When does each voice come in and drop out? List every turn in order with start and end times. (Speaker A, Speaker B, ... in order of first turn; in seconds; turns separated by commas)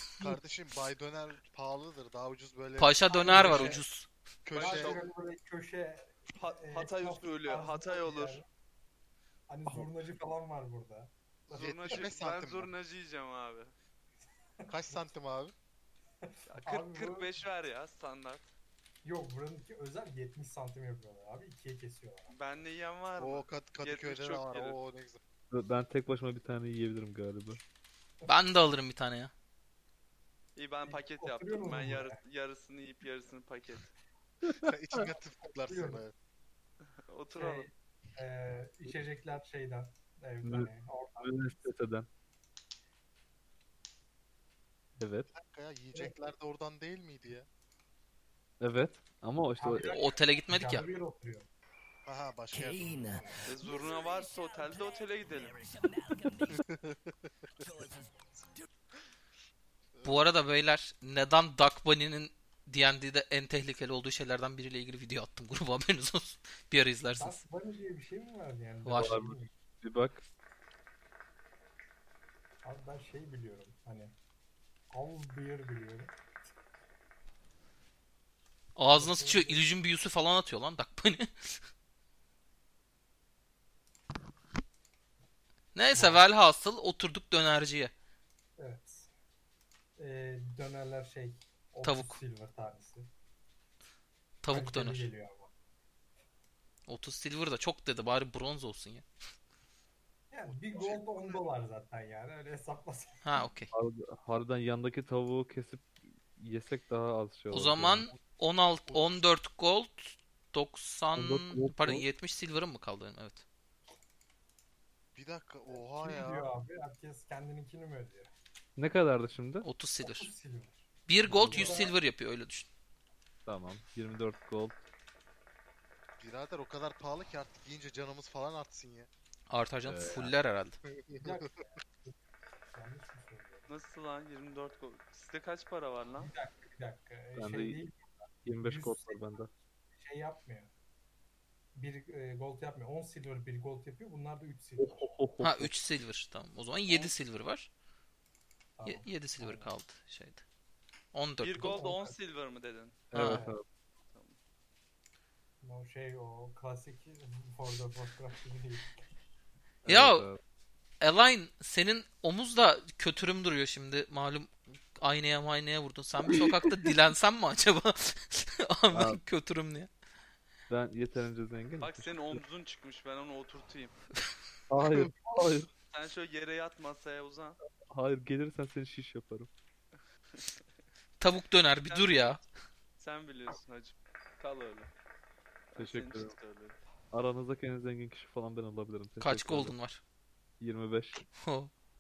Speaker A: 0.2-3.7, Speaker B: 2.8-4.1, Speaker C: 3.1-3.9, Speaker D: 3.2-3.7, Speaker A: 4.5-5.0, Speaker D: 4.5-5.0, Speaker C: 4.5-8.5, Speaker D: 6.3-8.4, Speaker C: 9.5-12.0, Speaker A: 11.5-12.7, Speaker D: 11.5-13.7, Speaker C: 14.7-15.0, Speaker A: 14.7-15.5, Speaker D: 16.5-18.5, Speaker C: 16.6-17.3, Speaker C: 19.0-22.4, Speaker D: 22.3-24.8, Speaker A: 23.2-25.2, Speaker E: 25.5-27.6, Speaker B: 28.3-29.3, Speaker D: 30.6-34.0, Speaker C: 30.9-32.2, Speaker A: 34.6-36.1, Speaker C: 35.7-36.0, Speaker D: 37.1-37.7, Speaker C: 37.4-41.7, Speaker E: 40.4-42.1, Speaker E: 45.0-45.3, Speaker A: 45.3-47.5, Speaker E: 48.6-49.9, Speaker C: 49.6-51.5, Speaker B: 49.9-50.9, Speaker A: 52.1-53.4, Speaker D: 53.5-55.8, Speaker A: 56.5-57.1, Speaker A: 60.0-60.3, Speaker B: 60.0-67.5, Speaker C: 67.2-69.5, Speaker B: 68.8-69.1, Speaker E: 68.9-70.2, Speaker C: 72.6-74.1, Speaker C: 74.9-76.1, Speaker B: 78.8-81.5, Speaker C: 78.9-79.7, Speaker B: 85.8-87.9, Speaker C: 85.9-86.3, Speaker C: 88.6-89.1, Speaker C: 90.0-93.1, Speaker B: 91.8-92.2, Speaker B: 94.4-95.1, Speaker C: 94.5-95.5, Speaker B: 96.9-99.1, Speaker C: 100.3-103.5, Speaker A: 100.5-101.4, Speaker B: 103.2-103.7, Speaker E: 103.7-108.1, Speaker B: 107.5-113.5, Speaker A: 108.8-109.3, Speaker E: 111.2-112.0, Speaker A: 115.1-116.5, Speaker C: 115.7-118.3, Speaker E: 118.8-119.7, Speaker B: 119.6-120.3, Speaker C: 120.0-120.9, Speaker B: 121.1-122.7, Speaker E: 121.2-121.9, Speaker C: 121.5-122.0, Speaker E: 123.5-124.8, Speaker A: 126.2-129.1, Speaker B: 129.5-130.8, Speaker E: 129.8-130.3, Speaker A: 131.1-131.4, Speaker C: 131.2-132.1, Speaker C: 132.7-133.7, Speaker D: 133.7-136.3, Speaker C: 136.2-139.4, Speaker E: 137.4-137.8, Speaker E: 138.4-139.5, Speaker C: 139.9-140.7, Speaker C: 141.8-145.1, Speaker E: 144.8-145.7, Speaker B: 145.4-147.7, Speaker D: 146.9-147.1, Speaker C: 148.8-149.7, Speaker B: 148.8-150.4, Speaker B: 151.1-151.7, Speaker D: 151.4-153.1, Speaker C: 151.6-152.2, Speaker E: 153.1-153.6, Speaker B: 153.1-153.4, Speaker C: 153.1-153.6, Speaker C: 155.6-158.9, Speaker E: 159.8-160.4, Speaker B: 159.9-160.3, Speaker B: 161.0-169.9, Speaker E: 168.9-169.2, Speaker E: 170.7-172.4, Speaker D: 171.8-174.0, Speaker E: 174.7-175.7, Speaker D: 175.9-177.6, Speaker E: 177.9-179.5, Speaker B: 181.2-182.4, Speaker D: 181.8-182.4, Speaker D: 183.0-184.9, Speaker D: 185.7-186.8, Speaker E: 185.8-186.3, Speaker E: 187.1-189.8, Speaker B: 189.2-190.0, Speaker E: 190.6-191.2, Speaker B: 191.4-191.7